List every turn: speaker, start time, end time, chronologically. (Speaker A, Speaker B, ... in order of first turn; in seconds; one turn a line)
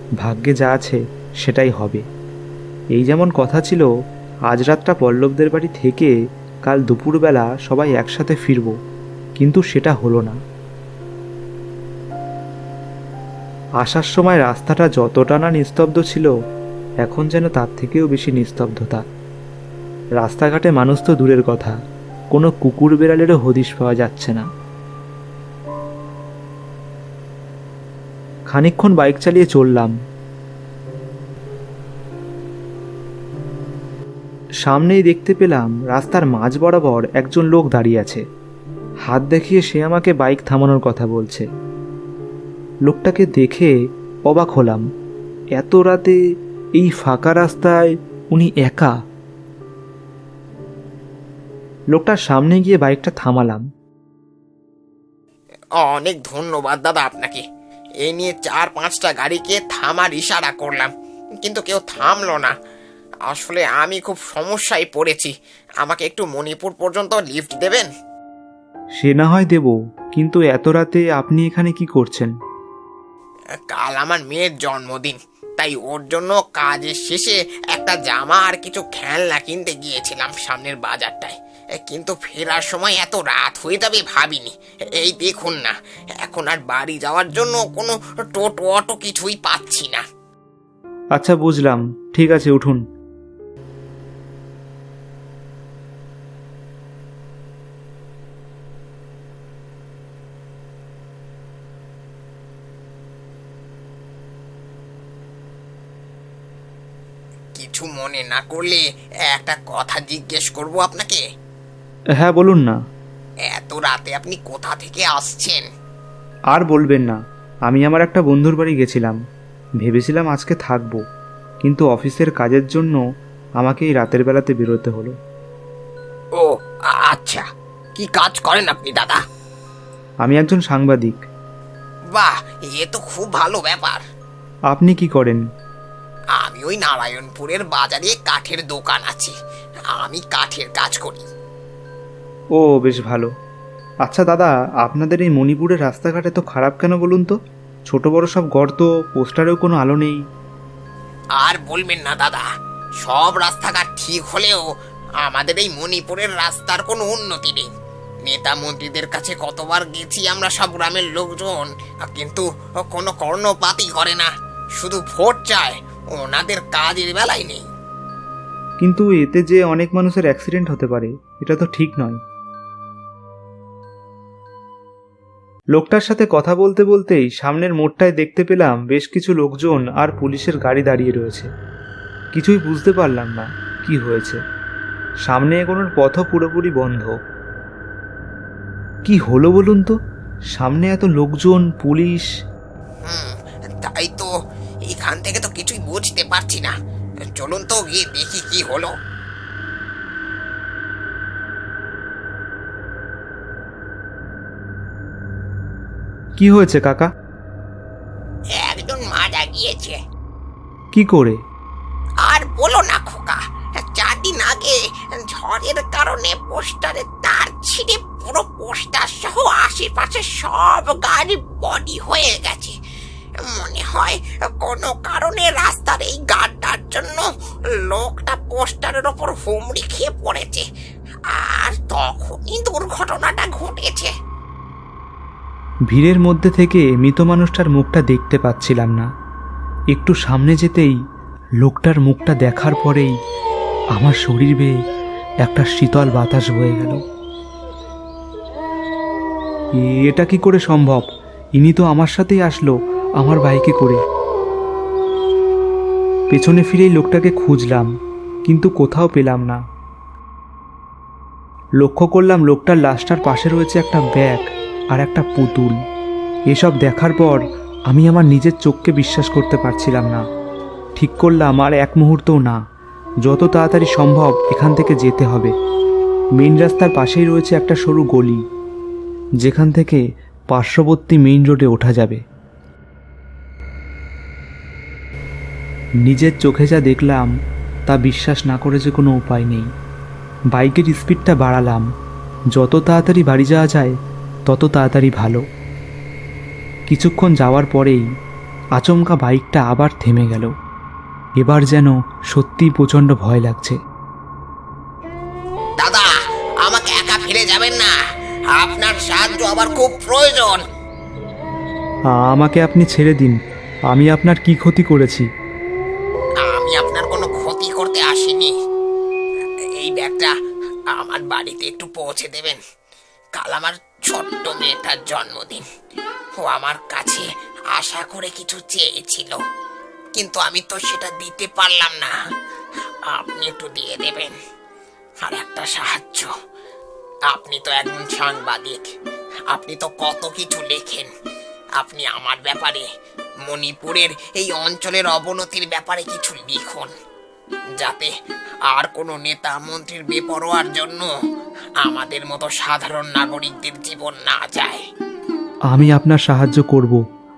Speaker A: 0.2-2.0
Speaker A: 2.9-3.9
Speaker A: 4.5-6.1
Speaker A: 6.7-8.7
Speaker A: 9.4-10.4
Speaker A: 13.8-16.3
Speaker A: 17.0-19.0
Speaker A: 20.2-21.8
Speaker A: 22.3-24.4
Speaker A: 28.5-29.9
Speaker A: 34.6-38.2
Speaker A: 39.1-41.5
Speaker A: 42.9-43.7
Speaker A: 44.3-44.9
Speaker A: 45.6-46.2
Speaker A: 46.8-48.9
Speaker A: 51.9-53.6
Speaker B: 55.8-57.4
Speaker B: 58.0-62.5
Speaker B: 63.3-67.9
Speaker A: 69.0-72.3
Speaker B: 73.7-90.0
Speaker A: 91.2-92.8
Speaker B: 107.6-111.2
Speaker A: 112.2-112.8
Speaker B: 113.5-115.7
Speaker A: 116.5-119.2
Speaker A: 119.8-121.0
Speaker A: 121.6-123.0
Speaker A: 123.6-125.1
Speaker B: 126.3-129.2
Speaker A: 130.2-131.2
Speaker B: 132.1-134.0
Speaker A: 134.7-135.4
Speaker B: 136.3-139.4
Speaker B: 139.9-141.2
Speaker A: 142.6-143.3
Speaker A: 144.0-147.3
Speaker A: 147.9-150.2
Speaker B: 151.3-152.5
Speaker B: 153.0-154.7
Speaker B: 155.2-157.7
Speaker B: 158.2-167.7
Speaker A: 168.8-172.2
Speaker A: 175.8-181.5
Speaker A: 182.3-184.4
Speaker A: 185.3-187.1
Speaker A: 189.1-189.9
Speaker A: 190.6-192.3
Speaker B: 193.0-194.3
Speaker B: 194.9-196.8
Speaker B: 197.3-198.9
Speaker A: 206.4-207.1
Speaker B: 208.6-210.0
Speaker A: 210.9-211.4
Speaker B: 212.2-222.8
Speaker B: 223.4-227.3
Speaker B: 227.8-230.7
Speaker B: 231.3-234.1
Speaker A: 235.9-239.1
Speaker A: 239.9-241.0
Speaker A: 241.6-243.1
Speaker A: 244.0-244.7
Speaker A: 245.4-247.0
Speaker A: 249.8-251.1
Speaker A: 251.6-254.0
Speaker A: 256.3-257.9
Speaker A: 258.5-259.6
Speaker A: 261.8-265.8
Speaker A: 266.5-270.2
Speaker A: 271.0-272.6
Speaker A: 273.2-275.5
Speaker A: 276.4-278.4
Speaker A: 279.4-282.2
Speaker A: 286.1-287.3
Speaker A: 287.9-289.7
Speaker A: 290.5-291.9
Speaker A: 292.5-293.9
Speaker A: 294.5-295.4
Speaker A: 296.9-298.0
Speaker A: 298.8-300.5
Speaker A: 301.4-303.8
Speaker B: 305.8-308.0
Speaker B: 308.5-310.6
Speaker A: 312.1-313.4
Speaker A: 313.9-315.3
Speaker B: 316.4-318.5
Speaker B: 319.8-320.4
Speaker B: 320.9-322.6
Speaker B: 323.4-325.6
Speaker B: 326.4-329.4
Speaker B: 330.1-332.1
Speaker B: 333.1-334.4
Speaker B: 335.2-336.3
Speaker B: 337.3-338.9
Speaker B: 339.5-341.1
Speaker B: 341.8-342.9
Speaker B: 343.5-346.9
Speaker B: 347.8-348.1
Speaker B: 348.7-351.1
Speaker B: 351.8-354.8
Speaker A: 355.7-357.0